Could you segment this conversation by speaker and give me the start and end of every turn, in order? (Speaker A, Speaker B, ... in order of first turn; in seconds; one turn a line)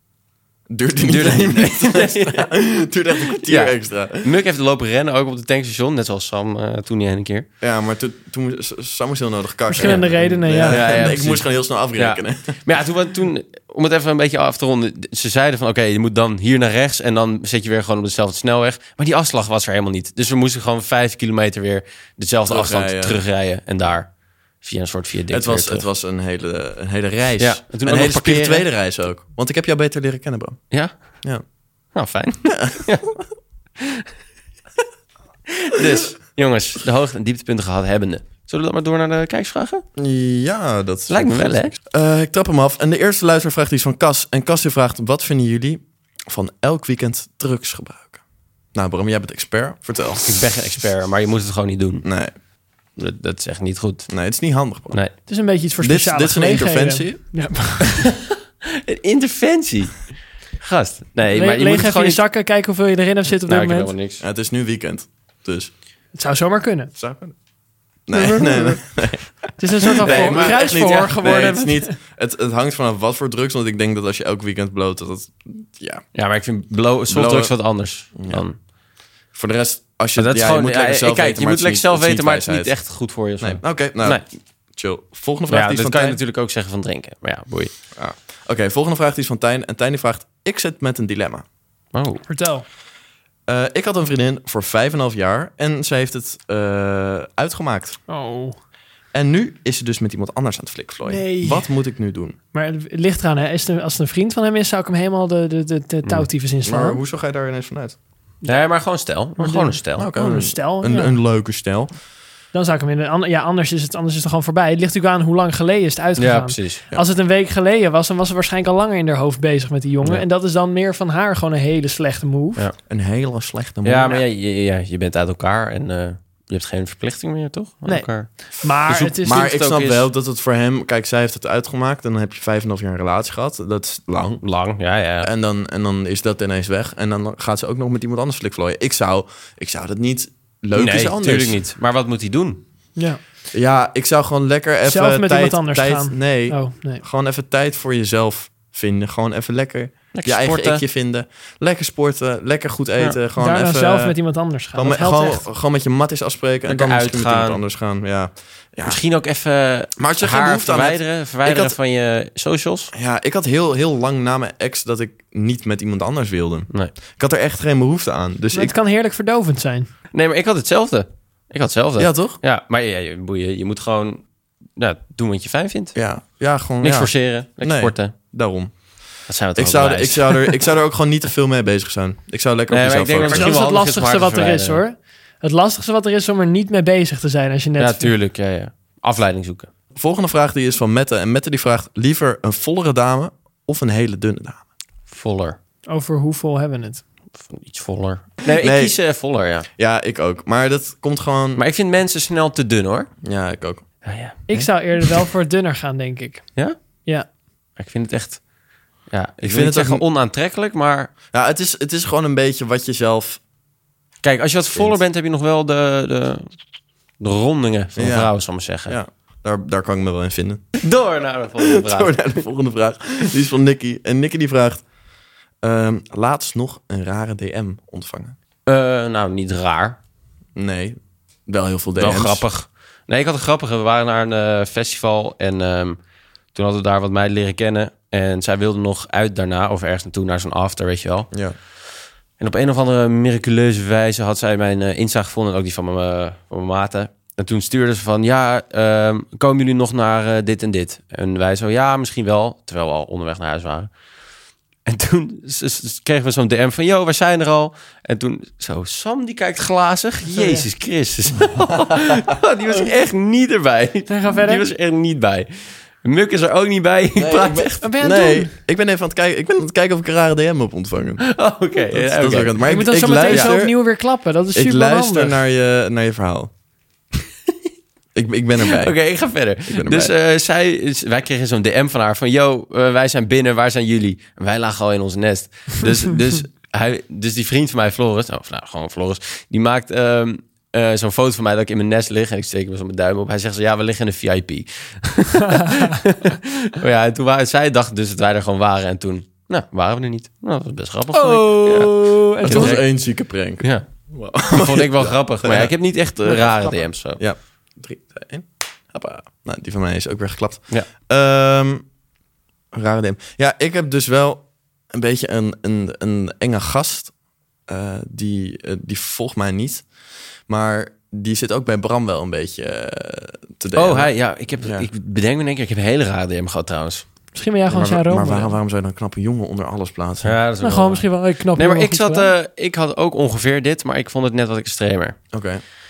Speaker A: 0.7-4.3
Speaker B: 1.0-2.5
Speaker B: 3.4-7.5
Speaker A: 7.6-12.6
Speaker C: 9.7-11.1
Speaker B: 9.8-10.1
Speaker B: 10.7-25.9
Speaker A: 22.5-23.2
Speaker A: 25.3-30.7
Speaker B: 27.4-28.7
Speaker B: 30.7-31.2
Speaker B: 31.9-33.1
Speaker A: 32.5-32.8
Speaker B: 35.6-39.8
Speaker A: 40.0-50.5
Speaker B: 41.1-41.8
Speaker B: 50.3-52.1
Speaker A: 52.0-52.3
Speaker B: 53.0-55.1
Speaker A: 54.1-55.0
Speaker C: 55.3-58.0
Speaker A: 55.8-57.2
Speaker B: 58.8-62.2
Speaker C: 61.3-63.9
Speaker B: 63.5-64.2
Speaker A: 64.2-65.7
Speaker C: 66.1-66.9
Speaker A: 67.0-67.3
Speaker A: 68.0-69.4
Speaker C: 68.1-68.9
Speaker C: 69.6-71.9
Speaker A: 70.0-76.1
Speaker B: 70.0-71.5
Speaker B: 76.2-78.6
Speaker A: 77.1-78.5
Speaker A: 79.3-86.2
Speaker B: 80.2-84.3
Speaker B: 85.5-87.7
Speaker A: 87.9-91.5
Speaker B: 91.9-92.2
Speaker C: 92.3-92.7
Speaker A: 93.5-98.0
Speaker C: 98.1-98.6
Speaker A: 99.1-102.4
Speaker C: 101.0-101.7
Speaker C: 102.5-107.0
Speaker A: 106.6-108.0
Speaker C: 108.4-108.7
Speaker B: 108.5-110.1
Speaker C: 109.4-111.2
Speaker A: 110.0-112.0
Speaker C: 112.5-122.7
Speaker B: 116.2-116.8
Speaker A: 122.9-124.2
Speaker B: 123.8-130.1
Speaker C: 127.9-129.4
Speaker A: 129.2-134.4
Speaker B: 134.4-135.3
Speaker A: 135.2-141.6
Speaker B: 140.7-142.6
Speaker C: 143.0-143.2
Speaker A: 143.5-159.0
Speaker C: 144.8-147.0
Speaker B: 150.1-150.8
Speaker C: 153.4-155.5
Speaker B: 156.7-157.6
Speaker B: 158.8-162.9
Speaker A: 160.0-161.8
Speaker A: 162.9-168.7
Speaker C: 168.5-169.9
Speaker B: 170.1-176.0
Speaker A: 172.0-172.4
Speaker A: 175.9-183.6
Speaker B: 176.8-178.2
Speaker B: 179.3-180.7
Speaker B: 182.7-184.8
Speaker C: 183.3-188.1
Speaker B: 187.8-189.7
Speaker A: 189.9-194.6
Speaker B: 195.1-195.6
Speaker C: 195.9-197.0
Speaker B: 197.4-199.7
Speaker A: 198.6-201.6
Speaker B: 201.6-203.1
Speaker A: 203.2-204.7
Speaker B: 204.0-204.5
Speaker C: 204.5-207.3
Speaker B: 206.6-207.1
Speaker B: 207.8-208.5
Speaker B: 209.0-211.1
Speaker A: 209.4-210.1
Speaker A: 211.3-213.4
Speaker B: 214.2-216.5
Speaker A: 214.7-215.0
Speaker B: 217.2-219.0
Speaker A: 218.0-220.9
Speaker B: 220.8-222.4
Speaker A: 221.6-224.8
Speaker A: 225.6-228.4
Speaker B: 228.7-230.0
Speaker A: 230.6-232.4
Speaker B: 232.0-236.0
Speaker B: 236.5-241.3
Speaker A: 241.3-241.6
Speaker B: 242.4-253.9
Speaker B: 254.9-267.8
Speaker C: 260.4-260.7
Speaker C: 264.1-264.7
Speaker A: 267.2-276.5
Speaker C: 267.8-268.5
Speaker B: 271.2-272.7
Speaker C: 272.7-275.4
Speaker B: 273.3-273.5
Speaker A: 278.1-280.1
Speaker B: 278.7-307.2
Speaker C: 301.1-302.8
Speaker A: 302.4-311.9
Speaker A: 312.7-317.1
Speaker A: 317.7-324.9
Speaker B: 323.7-327.1
Speaker C: 327.3-328.5
Speaker A: 327.7-330.4
Speaker B: 330.2-335.3
Speaker C: 330.6-332.3
Speaker A: 335.3-335.6